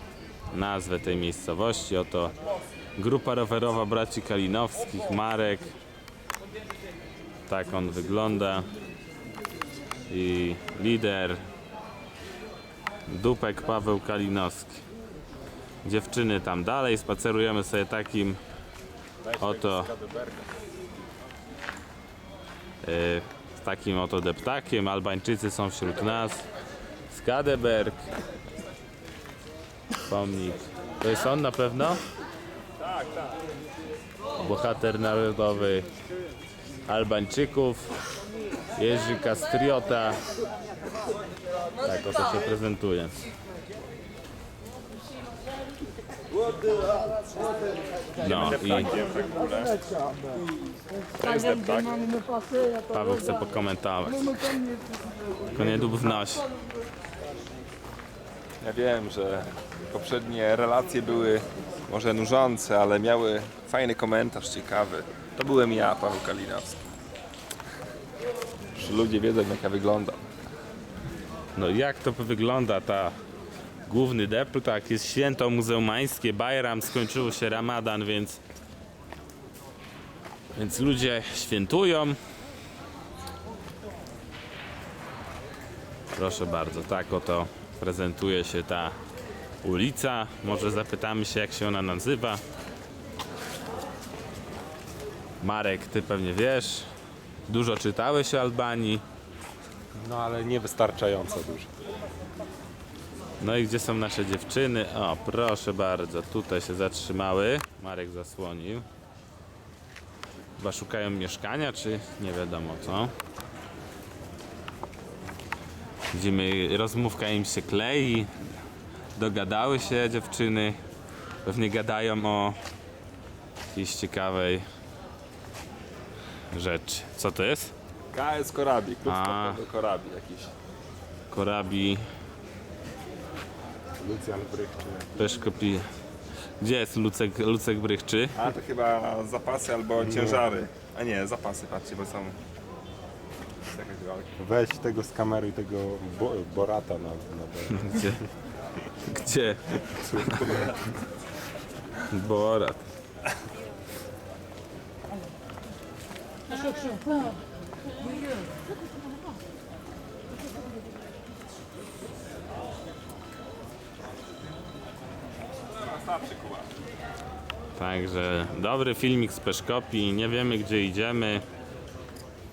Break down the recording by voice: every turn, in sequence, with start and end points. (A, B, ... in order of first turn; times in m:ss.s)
0:00.5-0:02.3 A
0:03.0-0:05.7 A
0:07.5-0:08.7 A
0:10.1-0:11.4 A
0:13.1-0:14.8 A
0:15.8-0:18.4 A
0:19.2-0:20.5 B
0:19.4-0:19.9 A
0:22.8-0:26.4 A
0:27.1-0:28.0 A
0:30.1-0:32.0 A
0:32.8-0:33.3 B
0:34.4-0:35.9 A
0:36.9-0:37.9 A
0:38.8-0:40.2 A
0:41.8-0:43.1 A
0:48.2-0:48.9 A
0:48.2-0:49.9 B
0:51.2-0:52.3 B
0:52.8-0:54.7 A
0:55.5-0:56.4 A
0:58.6-1:06.8 B
1:08.8-1:10.2 B
1:11.6-1:13.1 A
1:13.8-1:18.4 A
1:20.5-1:22.2 A
1:26.1-1:28.9 A
1:29.6-1:32.4 A
1:35.4-1:36.9 A
1:37.5-1:39.0 A
1:40.0-1:41.7 C
1:43.4-1:48.8 A
1:50.6-1:53.1 A
1:56.1-1:58.3 A
1:59.2-2:00.8 A
2:01.4-2:02.6 A
2:03.7-2:04.6 A
2:06.5-2:07.7 A
2:08.1-2:10.5 B
2:09.0-2:09.6 A
2:11.3-2:12.0 A
2:14.0-2:15.1 C
2:15.2-2:15.9 A
2:16.6-2:18.3 A
2:18.4-2:22.4 B
2:20.0-2:20.4 C
2:23.7-2:24.3 B
2:24.4-2:28.2 C
2:27.7-2:28.2 A
2:29.0-2:30.8 A
2:30.0-2:30.8 C
2:32.0-2:32.8 A
2:45.7-2:46.7 B
2:47.8-2:51.4 A